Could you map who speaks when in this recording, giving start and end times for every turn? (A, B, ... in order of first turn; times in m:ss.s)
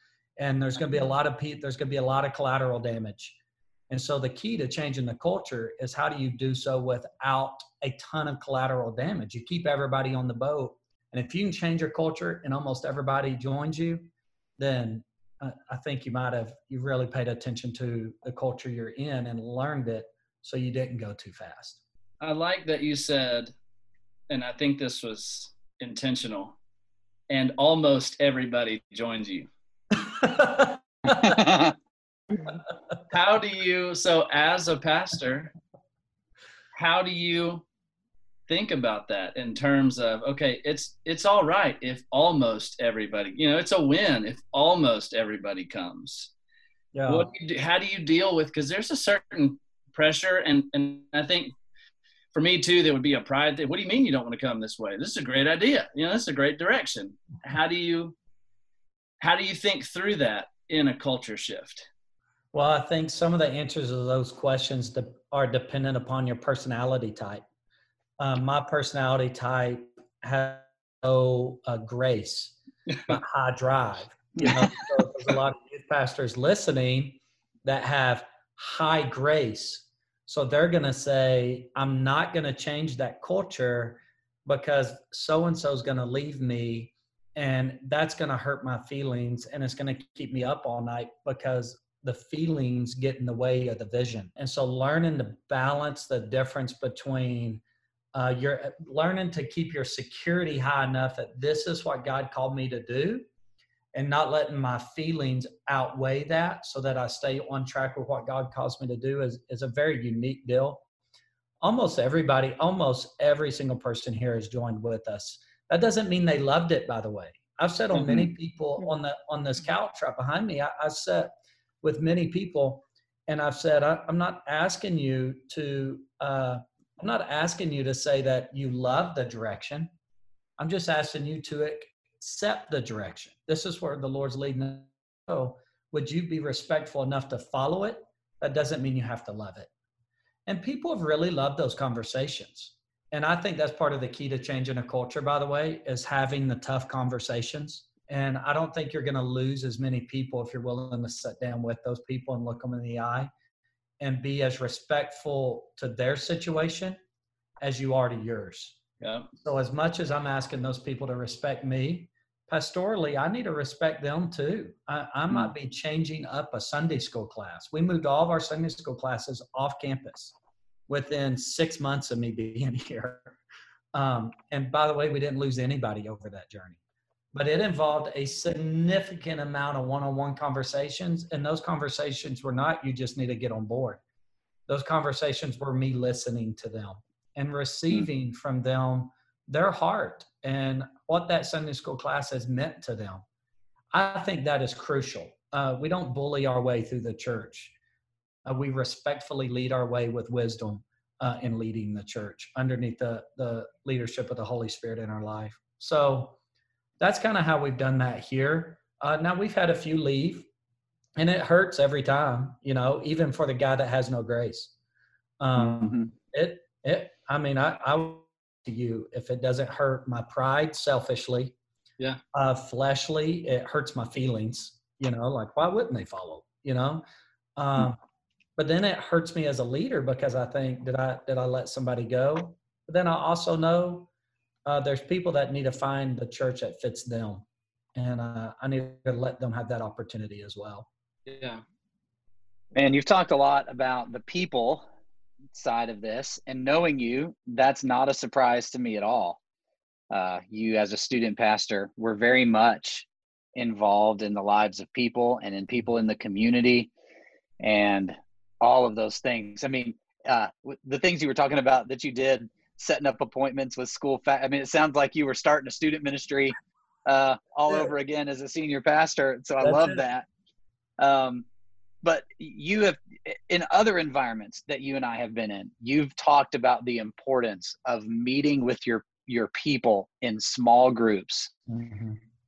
0:00.4-0:03.4 A
0:03.9-0:21.8 A
0:22.2-0:23.5 B
0:24.3-0:26.6 B
0:27.3-0:29.5 B
0:30.1-0:31.4 A
0:31.3-0:31.7 C
0:33.1-0:35.5 B
0:36.8-0:37.6 B
0:38.5-0:46.3 B
0:46.9-0:47.3 A
0:47.1-0:51.5 B
0:52.3-0:58.2 B
0:59.2-1:01.9 B
1:02.5-1:07.4 A
1:08.2-1:12.6 A
1:13.1-1:37.6 A
1:38.1-1:43.3 A
1:43.9-1:50.8 A
1:51.6-2:09.9 A
1:58.0-1:58.3 C
2:10.6-2:19.7 A
2:20.5-2:33.3 A
2:34.0-2:37.0 A
2:37.6-2:38.8 A
2:39.0-2:39.3 B
2:39.4-2:50.4 A
2:50.9-2:53.4 A
2:53.9-2:56.8 A
2:57.3-3:04.0 A
3:04.7-3:13.2 A
3:13.9-3:17.7 A
3:18.4-3:26.4 A
3:27.0-3:30.5 A
3:31.2-3:34.7 A
3:35.4-3:41.6 A
3:35.6-3:36.1 C
3:42.3-3:47.0 A
3:47.6-3:48.0 A
3:48.6-3:54.1 A
3:54.7-3:57.4 A
3:58.0-4:00.9 A
4:01.3-4:01.6 B
4:02.8-4:04.9 C
4:05.5-4:09.4 C
4:10.1-4:16.9 C
4:17.6-4:30.3 C
4:29.6-4:30.0 A
4:31.0-4:31.5 C
4:32.0-4:41.5 C
4:41.7-4:42.2 A